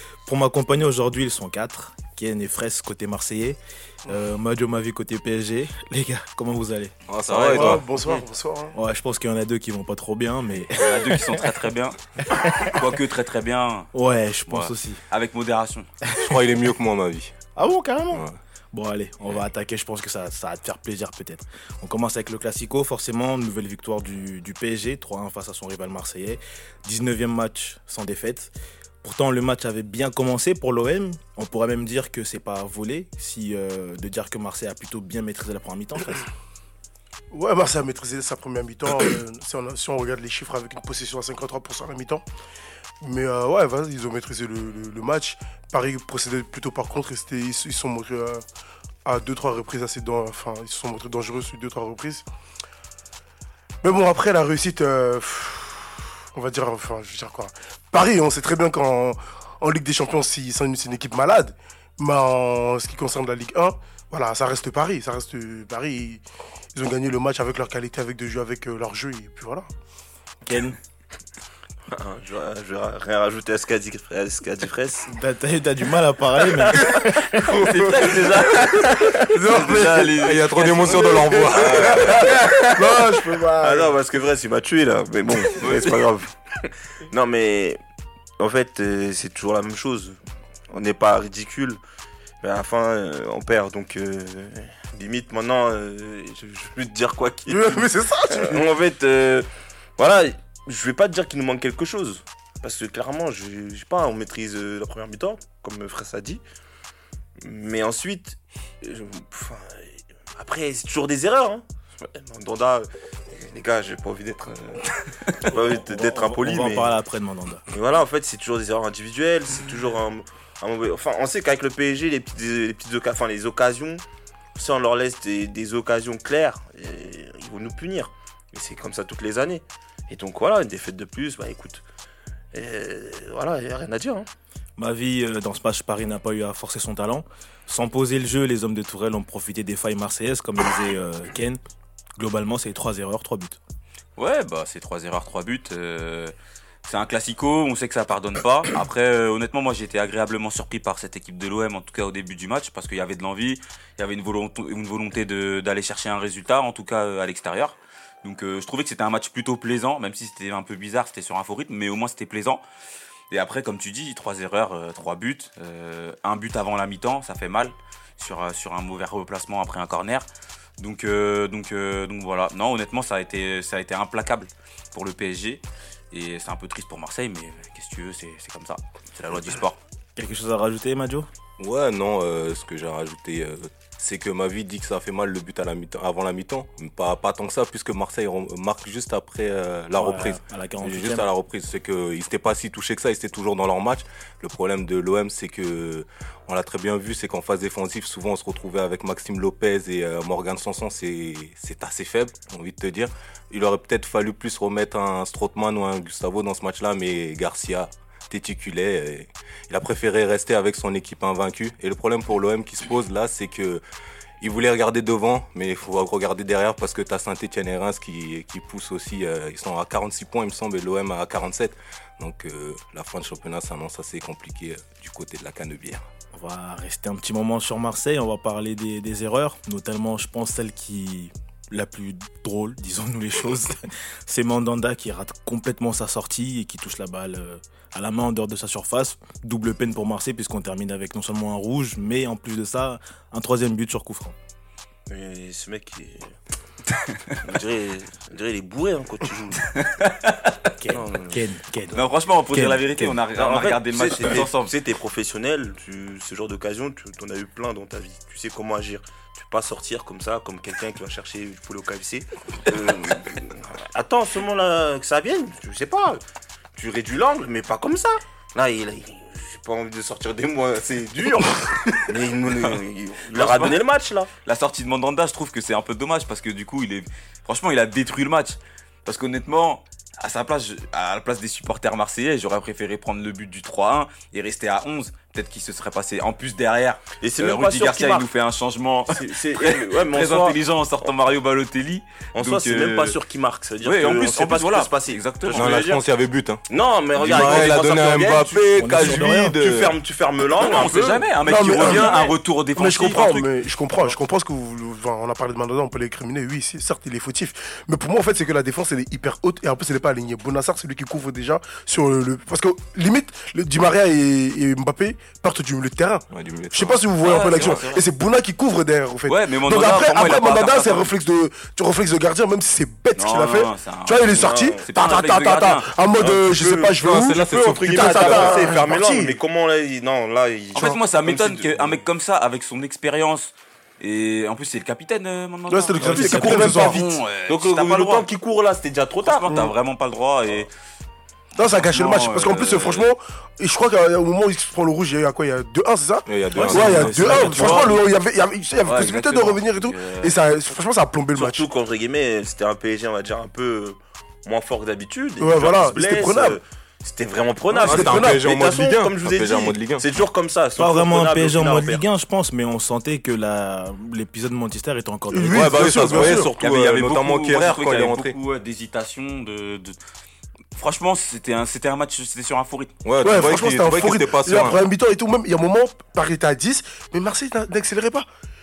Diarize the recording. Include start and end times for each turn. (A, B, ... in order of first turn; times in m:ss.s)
0:00.3-0:06.9 A
0:07.1-0:07.8 B
0:07.3-0:07.8 C
0:07.5-0:08.8 D
0:08.8-0:11.4 A
0:10.8-0:13.9 C
0:12.3-0:12.8 A
0:13.9-0:15.0 A
0:14.5-0:15.9 C
0:16.2-0:17.4 B
0:17.6-0:28.5 A
0:29.0-0:36.2 A
0:37.3-0:42.2 D
0:43.0-0:48.4 D
0:49.0-0:52.2 D
0:53.8-1:06.2 D
1:06.8-1:09.7 D
1:10.4-1:10.8 A
1:11.9-1:15.1 E
1:15.1-1:17.4 A
1:17.5-1:18.1 B
1:17.5-1:19.8 E
1:17.5-1:22.6 C
1:19.4-1:22.4 B
1:22.7-1:23.9 D
1:23.6-1:27.8 E
1:25.6-1:26.0 C
1:28.4-1:30.2 E
1:30.7-1:31.8 E
1:32.4-1:46.4 E
1:37.5-1:38.7 D
1:47.4-1:56.9 E
1:55.5-1:57.7 A
1:57.7-2:04.0 E
2:04.6-2:11.8 E
2:12.5-2:14.3 E
2:14.8-2:21.6 A
2:22.2-2:23.6 A
2:24.2-2:26.3 C
2:26.8-2:42.6 C
2:43.3-2:50.3 C
2:50.8-2:59.8 C
3:00.2-3:01.3 A
3:01.6-3:33.8 B
3:10.0-3:11.3 A
3:34.4-3:46.0 B
3:46.3-4:04.4 A
4:05.1-4:06.3 E
4:07.4-4:09.7 E
4:09.7-4:10.5 C
4:10.8-4:13.2 A
4:10.9-4:11.4 E
4:11.9-4:14.7 C
4:13.4-4:26.2 E
4:26.8-4:34.3 E
4:33.3-4:33.8 C
4:34.4-4:53.2 C
4:47.2-4:48.3 E
4:49.1-4:50.6 E
4:52.4-4:56.0 E
4:53.8-4:55.9 C
4:55.5-4:56.6 B
4:56.7-5:02.1 E
4:57.2-5:00.0 B
4:58.8-4:59.6 A
5:00.5-5:03.5 C
5:01.4-5:29.4 D
5:16.3-5:17.0 B
5:17.2-5:18.0 C
5:19.3-5:21.1 C
5:23.2-5:26.3 C
5:24.4-5:24.8 E
5:26.5-5:27.0 E
5:27.0-5:28.7 B
5:27.6-5:32.0 E
5:30.8-5:38.3 C
5:35.7-5:37.0 D
5:36.0-5:37.0 A
5:36.8-5:39.5 E
5:39.2-5:40.7 C
5:39.5-5:39.7 D
5:41.6-5:51.7 D
5:41.6-5:43.1 C
5:46.3-5:48.0 B
5:46.6-5:48.0 C
5:48.8-5:50.4 C
5:51.4-6:02.0 E
5:55.4-5:56.6 D
5:57.7-5:58.5 D
5:57.8-6:00.2 B
6:00.8-6:06.0 A
6:05.3-6:06.5 D
6:05.5-6:08.4 B
6:06.0-6:10.0 C
6:10.8-6:13.0 C
6:13.0-6:14.8 B
6:13.2-6:18.3 D